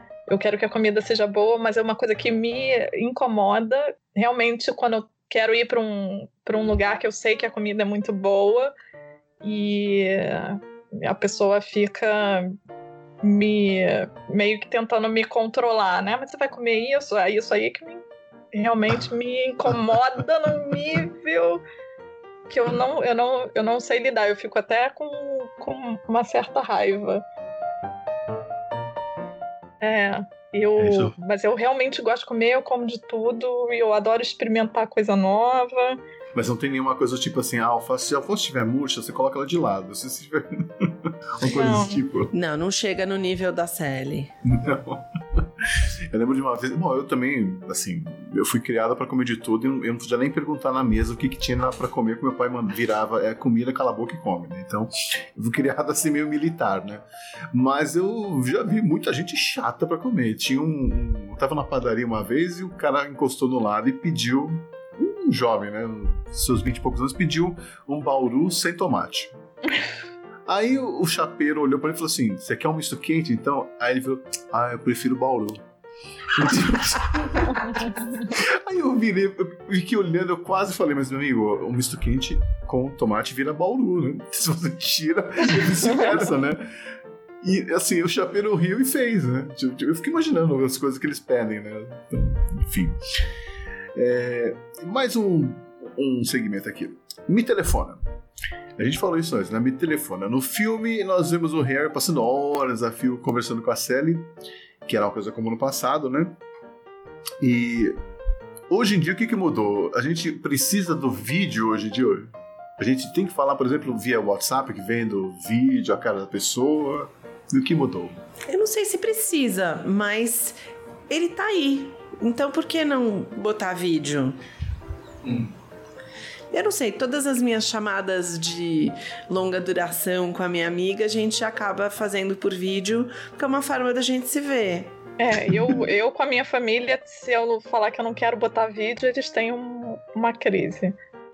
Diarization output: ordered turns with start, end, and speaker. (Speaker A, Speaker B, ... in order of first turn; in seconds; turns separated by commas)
Speaker A: 0.3-8.7, Speaker A: 9.4-12.5, Speaker A: 13.2-21.6, Speaker A: 22.5-27.2, Speaker A: 29.8-36.0, Speaker B: 30.8-31.1, Speaker B: 36.3-42.3, Speaker A: 41.4-42.0, Speaker C: 42.3-44.3, Speaker B: 44.4-69.3, Speaker B: 70.5-75.6, Speaker B: 76.3-86.7, Speaker A: 77.5-78.1, Speaker A: 85.8-86.2, Speaker B: 87.4-93.0, Speaker B: 94.0-98.0, Speaker B: 98.8-104.3, Speaker B: 104.8-106.3, Speaker B: 107.4-108.0, Speaker B: 108.7-118.2, Speaker C: 118.5-120.6, Speaker C: 121.1-124.3, Speaker C: 126.5-134.9, Speaker A: 135.2-140.9